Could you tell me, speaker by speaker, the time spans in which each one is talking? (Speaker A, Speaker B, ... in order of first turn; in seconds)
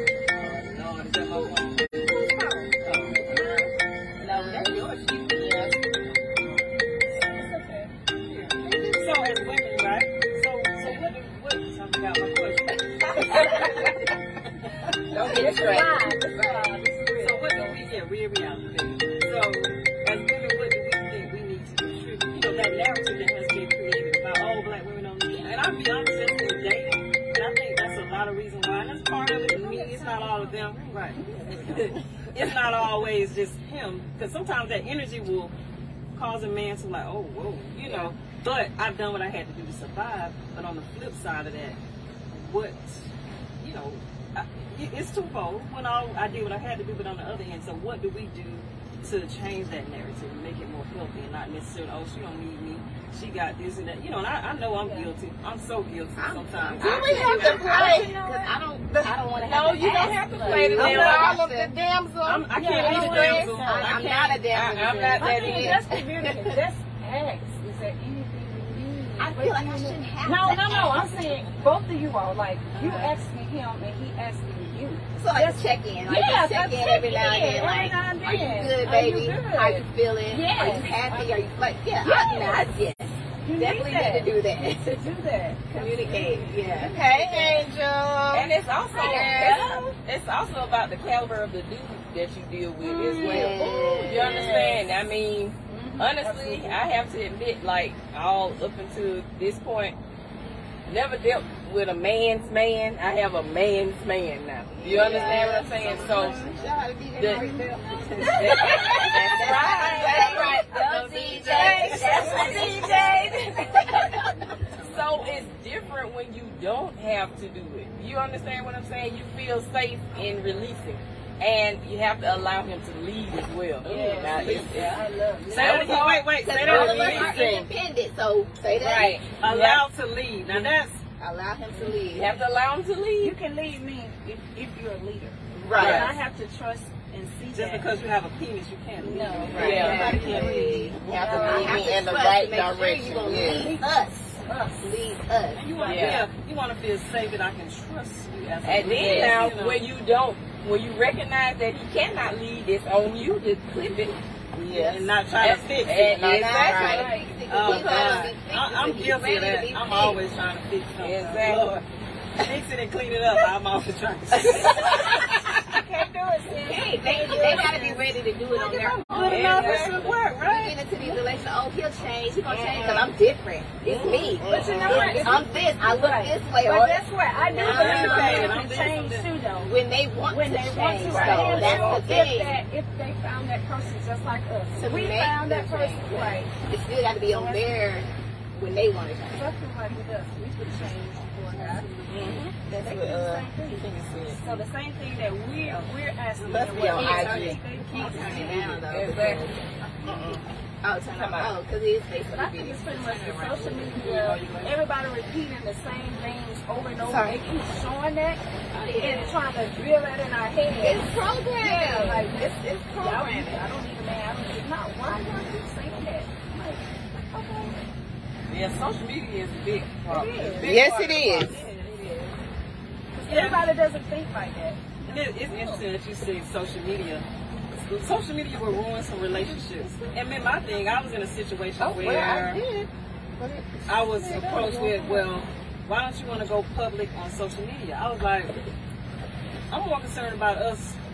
Speaker A: 0.3-3.6, 8.2-13.9, 17.2-35.5, 36.1-41.8, 42.3-57.2, 60.8-61.3, 62.2-64.4, 104.9-106.8, 109.5-112.7, 114.7-115.4, 124.4-127.4, 129.4-131.0, 135.8-136.1, 137.5-141.5, 145.5-149.8, 154.7-156.2, 157.5-161.8, 162.4-165.3, 169.1-170.8, 177.6-179.3, 203.9-204.7, 223.3-223.7, 225.0-227.2, 227.8-232.6, 233.9-238.5, 239.7-241.0
Speaker B: 3.2-3.7, 7.3-7.9, 13.3-13.9, 15.1-17.9, 29.5-31.8, 54.8-55.1, 57.0-59.1, 60.3-60.8, 62.6-64.0, 65.2-81.3, 82.0-82.6, 83.4-86.9, 88.9-89.9, 92.8-94.7, 95.7-96.8, 107.3-110.4, 111.9-114.6, 123.8-126.1, 131.7-132.1, 133.2-137.9, 139.0-142.0, 143.3-143.9, 144.4-144.8, 145.7-146.2, 156.8-157.8, 164.8-169.9, 174.4-179.7, 180.3-186.5, 187.3-187.7, 189.3-198.6, 202.3-208.4, 209.0-212.5, 213.0-217.8, 220.1-220.8, 223.1-225.8, 229.3-230.8, 234.2-235.3
Speaker C: 3.3-4.9, 13.3-13.9, 15.1-16.7, 30.0-30.2, 30.8-31.8, 56.1-61.8, 63.4-66.6, 69.2-71.3, 75.1-85.1, 85.7-87.7, 89.0-89.8, 93.2-94.7, 104.7-114.3, 126.4-129.2, 131.2-132.3, 139.6-145.7, 156.2-160.2, 164.7-165.2, 166.6-169.9, 170.4-178.6, 179.6-182.6, 184.8-189.5, 196.8-199.6, 200.8-203.7, 207.1-207.4, 208.7-209.4, 210.8-213.7
Speaker D: 4.4-5.7, 15.4-15.8, 56.8-58.1, 60.7-63.5, 86.8-89.6, 94.0-94.8, 109.9-110.7, 126.6-127.7, 135.5-136.1, 139.5-140.0, 140.9-143.8, 149.0-149.3, 156.0-157.1, 172.5-173.1, 174.0-175.4, 181.1-182.0, 192.1-193.5, 196.4-197.6, 200.0-200.4, 201.1-201.5, 220.6-221.6, 231.8-233.7, 234.2-234.6
Speaker E: 15.1-16.1, 37.8-38.1, 59.5-61.4, 64.5-65.8, 88.3-100.0, 100.9-106.5, 107.2-107.5, 108.2-110.6, 111.5-113.3, 114.8-127.2, 128.7-129.9, 132.0-133.4, 135.7-136.1, 139.5-140.4, 145.8-146.3, 148.6-157.0, 161.0-161.8, 169.1-170.1, 172.6-173.0, 173.9-175.2, 181.4-181.9, 193.8-194.4, 198.8-199.4, 218.5-221.8